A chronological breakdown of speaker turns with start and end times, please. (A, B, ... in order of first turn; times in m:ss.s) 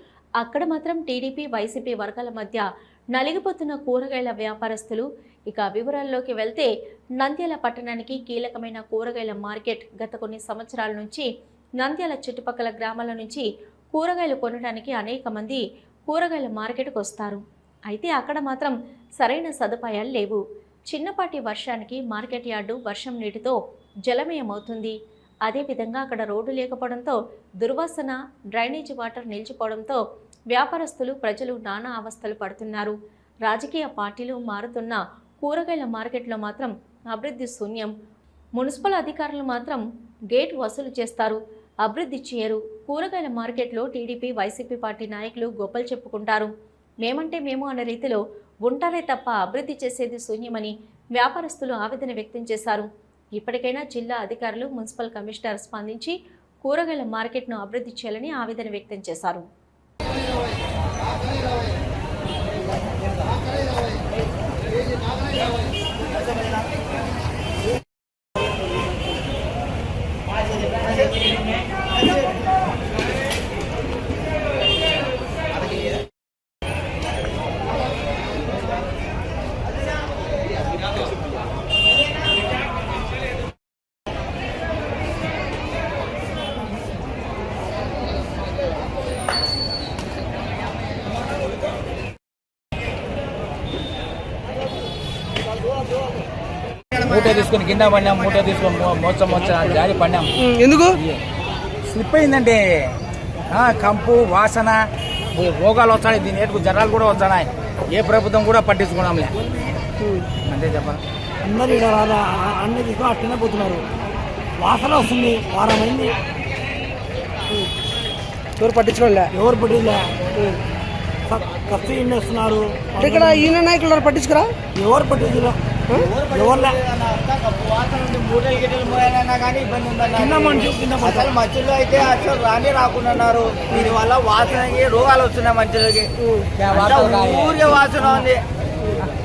0:00.4-0:06.7 A
0:07.2-0:11.3 A
0:11.8-0:37.9 A
0:38.6-0:46.5 A
0:47.0-0:59.5 A
1:37.0-1:40.3 B
1:40.6-1:40.9 C
1:41.9-1:42.6 B
1:43.5-1:44.8 B
1:45.4-1:49.3 B
1:50.4-1:51.0 B
1:51.5-1:53.8 D
1:54.6-1:56.1 D
1:58.6-1:59.3 C
1:59.3-2:00.2 D
2:01.3-2:03.0 D
2:03.0-2:04.5 C
2:04.7-2:05.6 D
2:05.9-2:16.1 E
2:06.3-2:06.7 D
2:10.2-2:11.2 B
2:16.6-2:17.7 B
2:16.7-2:18.4 E